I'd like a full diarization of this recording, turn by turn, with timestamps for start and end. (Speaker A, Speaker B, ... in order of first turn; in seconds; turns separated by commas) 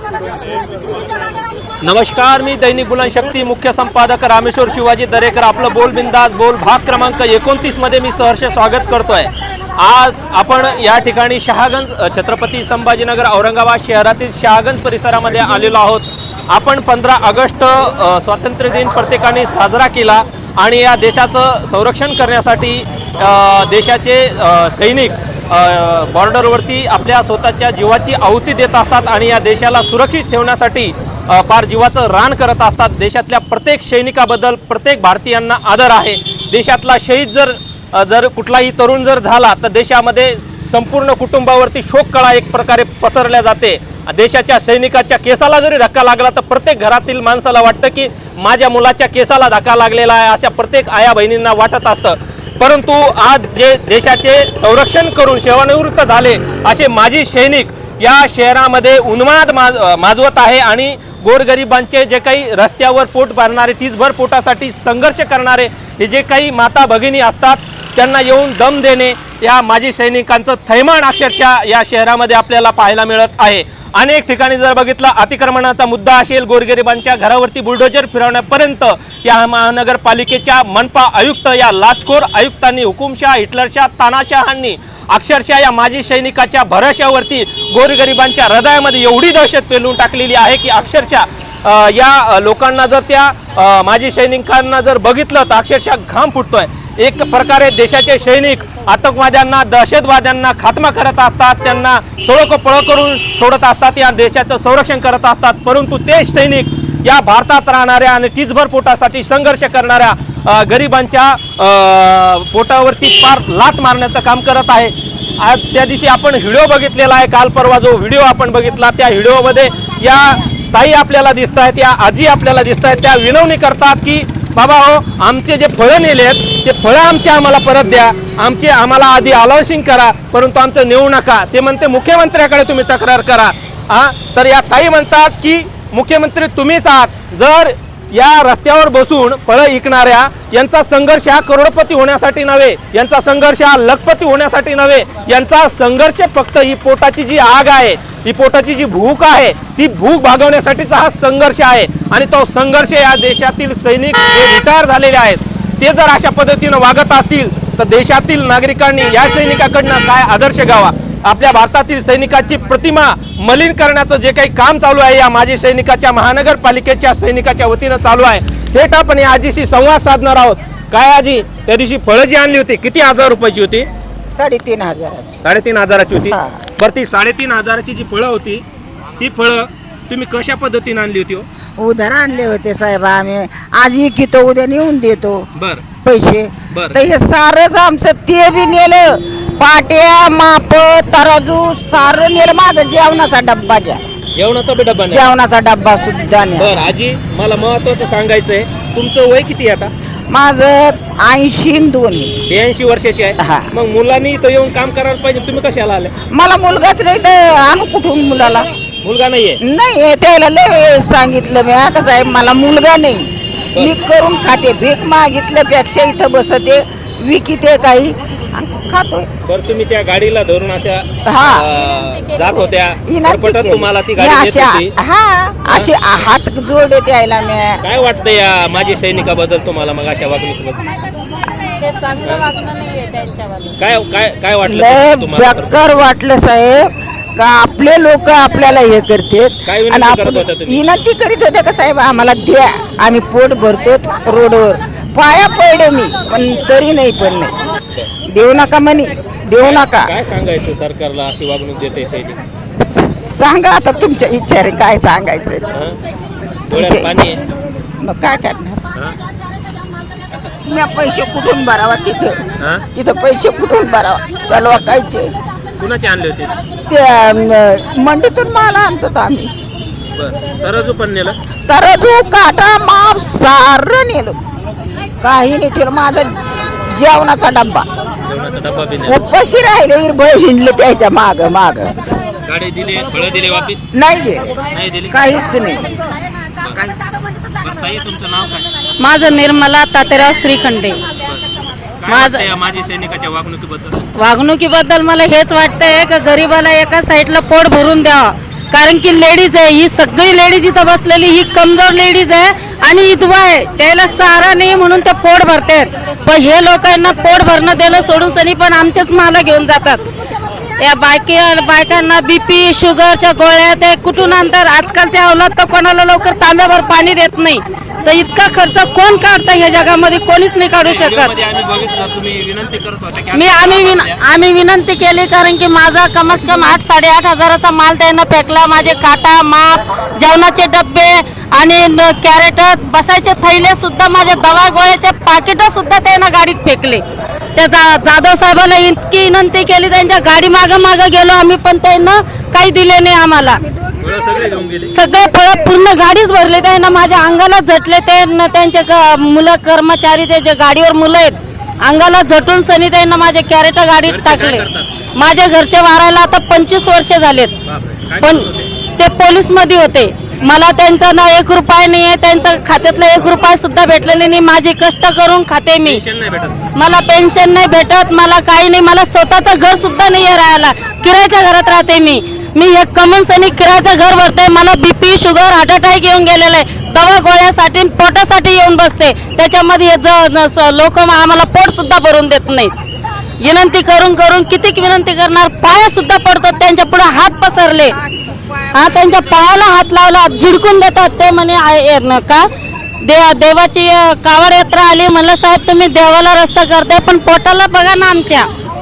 Speaker A: 1.8-173.9, Speaker B: 174.3-175.4, Speaker A: 175.4-178.6, Speaker B: 176.3-176.7, Speaker A: 179.2-181.5, Speaker B: 181.8-185.4, Speaker A: 185.6-185.8, Speaker B: 186.0-194.0, Speaker A: 186.7-187.0, Speaker A: 194.3-195.3, Speaker B: 195.1-196.8, Speaker A: 196.6-199.9, Speaker B: 200.3-202.3, Speaker A: 202.4-206.1, Speaker B: 203.4-203.7, Speaker B: 206.3-208.7, Speaker A: 209.0-209.6, Speaker B: 209.6-219.3, Speaker A: 219.4-224.9, Speaker B: 221.3-221.7, Speaker B: 223.1-227.8, Speaker A: 227.8-230.8, Speaker C: 231.6-233.8, Speaker A: 232.2-232.5, Speaker A: 233.8-235.8, Speaker B: 234.6-247.5, Speaker A: 239.7-240.8, Speaker B: 248.2-250.2, Speaker A: 249.6-252.4, Speaker B: 252.8-255.8, Speaker A: 255.7-256.0, Speaker B: 256.7-257.4, Speaker A: 256.7-257.4, Speaker B: 258.0-258.8, Speaker B: 260.6-265.3, Speaker A: 262.6-262.9, Speaker A: 265.8-266.6, Speaker B: 266.9-269.5, Speaker A: 270.1-271.4, Speaker B: 271.7-274.4, Speaker B: 275.2-277.9, Speaker A: 278.2-279.2, Speaker B: 279.1-281.9, Speaker A: 282.4-283.8, Speaker B: 283.9-284.6, Speaker A: 284.7-285.2, Speaker B: 285.1-285.9, Speaker B: 286.7-287.0, Speaker A: 287.6-288.7, Speaker C: 289.0-291.0, Speaker A: 292.0-294.0, Speaker C: 292.1-292.5, Speaker C: 294.2-310.1, Speaker C: 310.8-321.3, Speaker A: 320.8-324.2, Speaker C: 323.3-337.0, Speaker C: 337.6-343.6, Speaker A: 344.0-344.9, Speaker C: 344.9-354.6, Speaker A: 354.1-354.9, Speaker C: 355.1-357.6, Speaker A: 357.6-358.7, Speaker C: 358.2-358.5, Speaker C: 359.0-366.0, Speaker A: 365.8-366.6, Speaker C: 366.8-382.7, Speaker C: 383.4-388.0, Speaker B: 388.2-388.6, Speaker C: 388.7-392.5, Speaker C: 393.0-398.5